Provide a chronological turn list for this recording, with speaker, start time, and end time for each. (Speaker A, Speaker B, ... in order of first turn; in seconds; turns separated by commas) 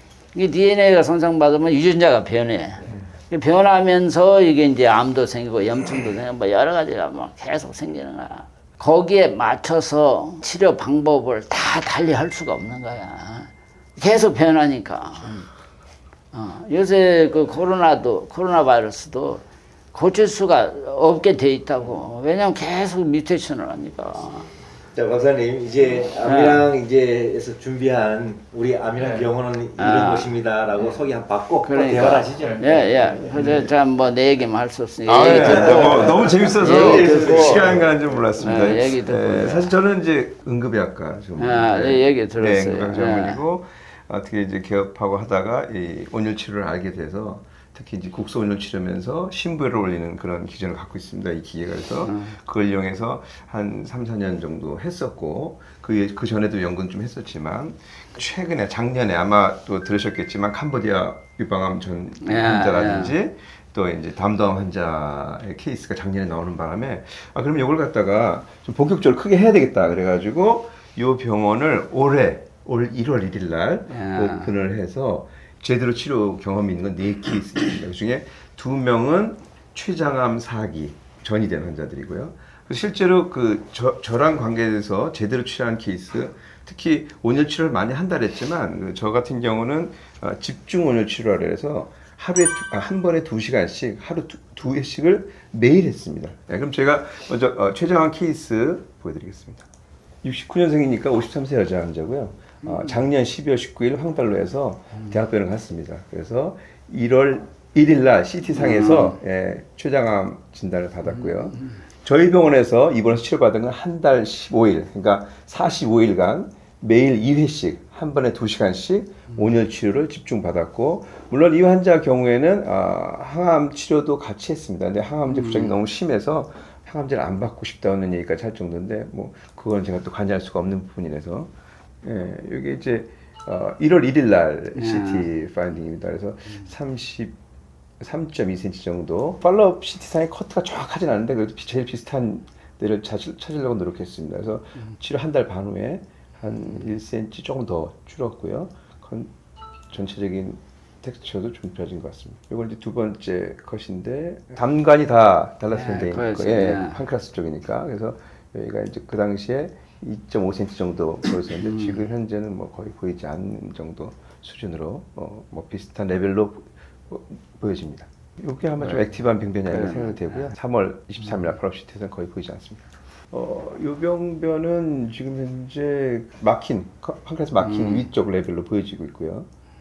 Speaker A: 0.3-15.5, Speaker A: 16.3-24.5, Speaker B: 24.9-33.2, Speaker A: 26.2-26.6, Speaker A: 29.8-30.3, Speaker A: 31.6-37.8, Speaker C: 33.3-33.7, Speaker C: 35.0-99.7, Speaker B: 35.2-37.9, Speaker A: 38.4-39.7, Speaker A: 41.4-43.4, Speaker A: 52.0-52.3, Speaker A: 62.2-63.1, Speaker A: 73.9-74.5, Speaker C: 100.2-131.5, Speaker A: 108.7-109.1, Speaker A: 125.3-125.7, Speaker C: 132.0-137.4, Speaker A: 134.8-135.3, Speaker C: 138.0-149.3, Speaker C: 149.9-179.5, Speaker A: 155.7-157.0, Speaker A: 177.8-178.0